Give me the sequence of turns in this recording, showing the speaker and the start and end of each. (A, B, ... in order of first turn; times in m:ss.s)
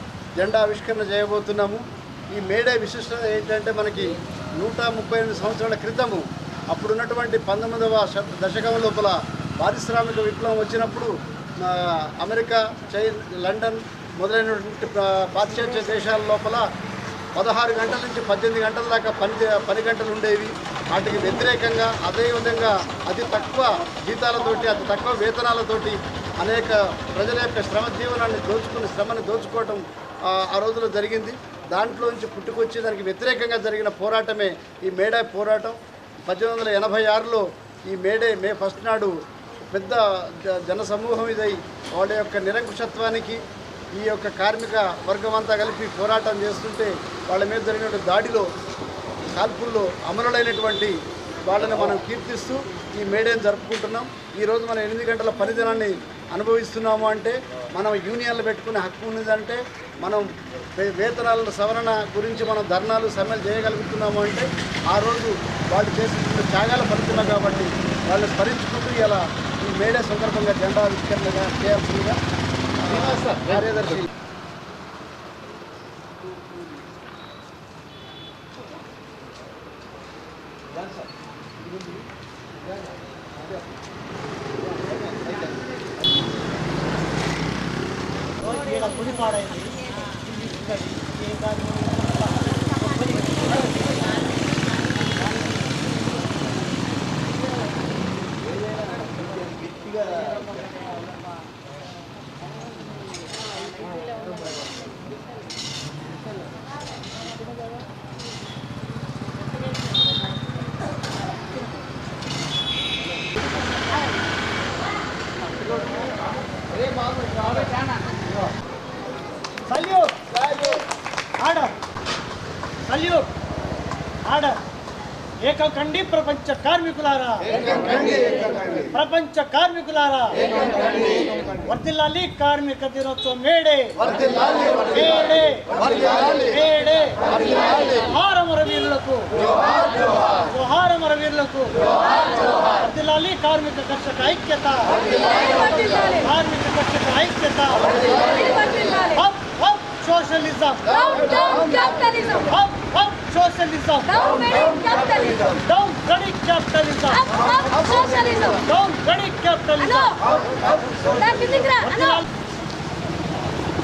0:00.4-0:16.6 A
0:17.4-0:39.2 A
0:39.7-0:43.4 A
0:43.9-0:48.5 A
0:49.3-1:12.2 A
1:12.8-1:14.1 A
1:28.4-1:29.7 B
1:31.0-1:31.9 B
1:59.6-2:00.2 B
2:00.4-2:00.8 A
2:01.4-2:01.7 B
2:02.8-2:03.3 B
2:04.2-2:04.6 B
2:05.4-2:25.1 B
2:25.1-2:26.2 C
2:26.2-2:28.5 B
2:28.1-2:29.2 C
2:29.1-2:31.1 B
2:30.9-2:32.5 C
2:31.1-2:31.9 A
2:32.5-2:34.6 B
2:34.1-2:35.6 C
2:35.5-2:37.3 B
2:37.1-2:38.6 C
2:38.6-2:40.2 B
2:39.8-2:40.2 C
2:41.0-2:42.2 C
2:41.9-2:42.2 B